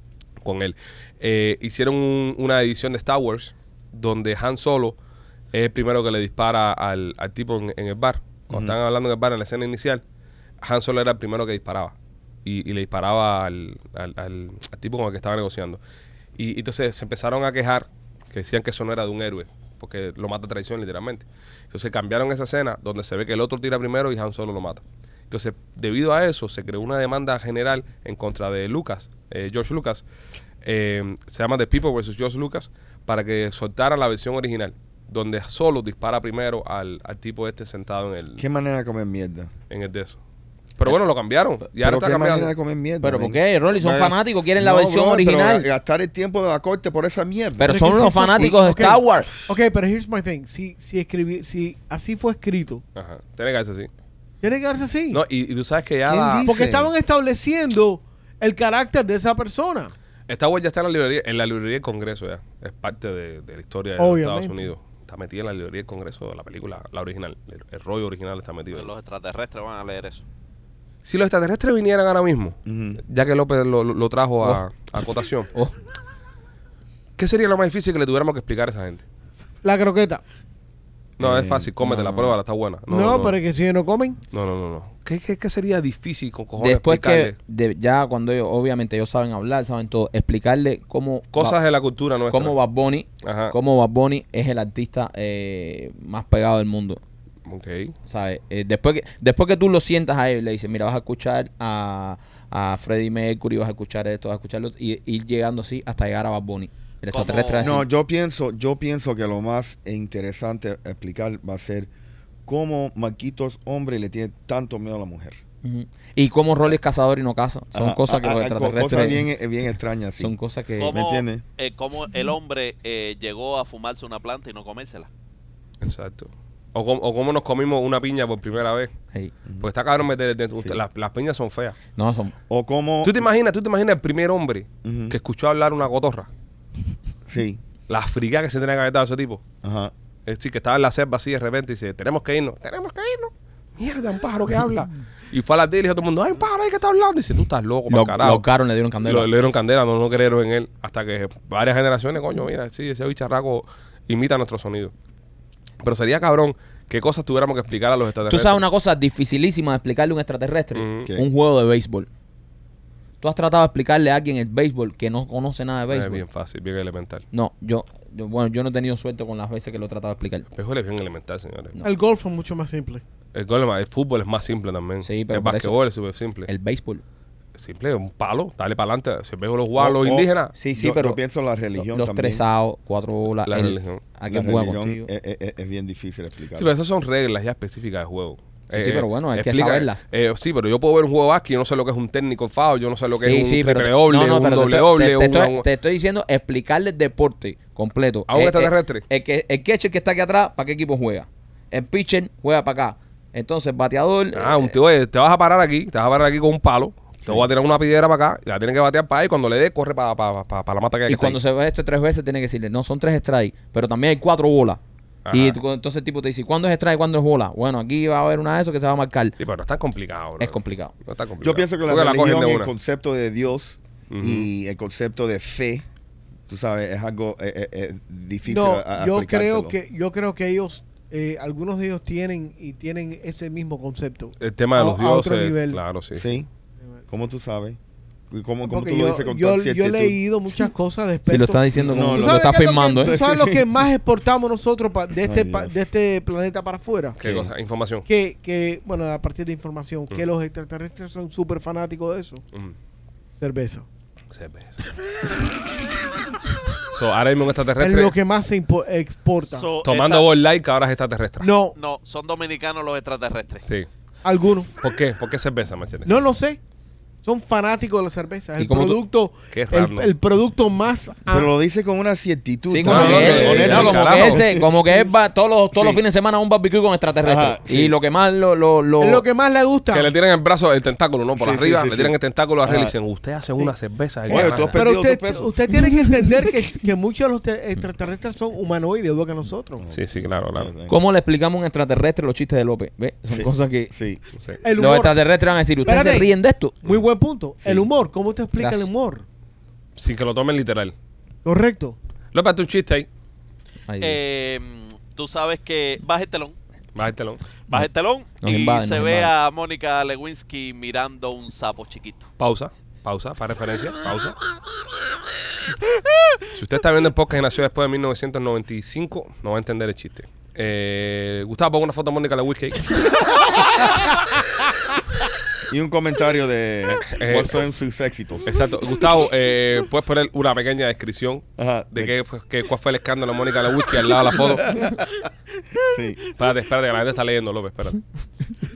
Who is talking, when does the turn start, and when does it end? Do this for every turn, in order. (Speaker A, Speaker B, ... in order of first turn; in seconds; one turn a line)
Speaker A: 0.4-5.0
Speaker A: 5.5-10.0
Speaker B: 8.5-8.8
Speaker A: 10.6-11.9
Speaker A: 12.4-15.8
Speaker A: 16.4-30.1
Speaker A: 30.6-38.5
Speaker B: 38.4-39.5
Speaker A: 39.7-40.2
Speaker A: 40.8-42.5
Speaker B: 41.8-49.4
Speaker C: 43.0-45.7
Speaker C: 47.6-49.3
Speaker D: 47.7-52.8
Speaker A: 53.0-53.9
Speaker D: 54.4-55.2
Speaker A: 55.1-56.5
Speaker B: 56.1-56.9
Speaker D: 56.5-59.9
Speaker A: 60.3-68.9
Speaker D: 64.0-64.7
Speaker E: 68.7-70.2
Speaker A: 71.0-72.6
Speaker B: 72.7-73.0
Speaker A: 73.1-75.5
Speaker A: 77.2-79.0
Speaker D: 79.6-80.2
Speaker B: 81.2-81.7
Speaker A: 81.2-83.4
Speaker C: 81.8-82.4
Speaker D: 82.9-84.2
Speaker A: 84.3-87.3
Speaker C: 86.6-91.6
Speaker A: 91.3-92.6
Speaker C: 92.3-97.0
Speaker A: 93.2-93.5
Speaker A: 97.5-98.0
Speaker C: 98.1-107.8
Speaker E: 107.1-107.8
Speaker B: 107.6-111.9
Speaker B: 112.5-115.4
Speaker C: 115.6-119.3
Speaker B: 117.7-120.3
Speaker C: 120.2-121.0
Speaker E: 120.8-125.1
Speaker B: 120.9-121.4
Speaker A: 125.8-128.9
Speaker A: 129.6-131.8
Speaker C: 132.0-132.3
Speaker B: 132.5-133.2
Speaker A: 133.0-136.3
Speaker B: 134.8-135.2
Speaker B: 137.3-137.6
Speaker A: 137.9-139.4
Speaker B: 139.6-139.9
Speaker A: 140.3-148.4
Speaker C: 147.9-149.4
Speaker A: 149.0-154.9
Speaker A: 155.8-158.6
Speaker C: 158.3-162.1
Speaker A: 160.8-161.1
Speaker C: 163.2-166.2
Speaker A: 165.9-167.2
Speaker C: 167.3-170.5
Speaker A: 170.5-171.8
Speaker D: 171.8-173.0
Speaker A: 173.3-176.5
Speaker C: 175.0-175.7
Speaker C: 176.5-177.0
Speaker A: 177.6-180.5
Speaker B: 179.8-182.4
Speaker C: 180.6-181.2
Speaker C: 181.8-185.1
Speaker A: 183.5-184.0
Speaker B: 184.3-186.7
Speaker A: 186.6-195.7
Speaker C: 188.7-190.0
Speaker C: 193.2-204.8
Speaker A: 198.3-199.0
Speaker A: 204.3-211.4
Speaker C: 211.1-214.8
Speaker A: 215.3-215.6
Speaker C: 215.3-219.4
Speaker A: 219.4-222.7
Speaker C: 220.4-220.9
Speaker B: 221.4-225.8
Speaker A: 224.1-224.5
Speaker B: 226.5-229.8
Speaker D: 228.5-235.8
Speaker A: 234.4-236.3
Speaker B: 236.2-236.5
Speaker B: 237.1-237.8
Speaker B: 238.3-240.2
Speaker D: 238.7-247.2
Speaker C: 241.3-243.2
Speaker B: 241.7-243.7
Speaker B: 245.2-245.9
Speaker B: 247.2-247.5
Speaker A: 247.2-248.1
Speaker D: 248.1-252.4
Speaker D: 253.4-253.9
Speaker A: 254.3-254.8
Speaker A: 256.9-258.1
Speaker D: 257.8-259.7
Speaker E: 259.5-260.3
Speaker A: 259.8-261.5
Speaker D: 261.4-261.8
Speaker E: 261.8-263.6
Speaker D: 264.2-264.7
Speaker A: 264.8-266.2
Speaker D: 266.1-266.6
Speaker D: 267.2-271.5
Speaker C: 268.6-269.0
Speaker A: 269.5-270.1
Speaker B: 271.3-275.0
Speaker C: 272.7-279.2
Speaker A: 272.9-274.4
Speaker D: 273.0-274.0
Speaker B: 275.7-276.0
Speaker B: 277.2-278.0
Speaker D: 279.0-280.1
Speaker A: 279.9-284.8
Speaker B: 281.4-282.9
Speaker B: 284.3-286.0
Speaker D: 284.3-289.8
Speaker B: 289.8-291.0
Speaker A: 289.9-290.7
Speaker C: 290.9-293.9
Speaker B: 293.3-294.2
Speaker D: 294.6-295.2
Speaker C: 294.8-296.9
Speaker D: 295.9-296.3
Speaker D: 296.8-299.2
Speaker B: 297.6-297.9
Speaker C: 298.6-298.9
Speaker A: 300.0-300.9
Speaker D: 301.4-302.0
Speaker A: 302.3-303.1
Speaker C: 303.9-304.2
Speaker E: 304.0-306.6
Speaker A: 306.9-307.4
Speaker E: 307.7-312.3
Speaker C: 308.4-309.3
Speaker A: 312.4-314.4
Speaker A: 316.5-323.2
Speaker B: 325.7-328.5
Speaker A: 327.1-327.6
Speaker A: 328.5-334.9
Speaker B: 331.6-332.1
Speaker B: 335.8-336.2
Speaker A: 336.4-338.0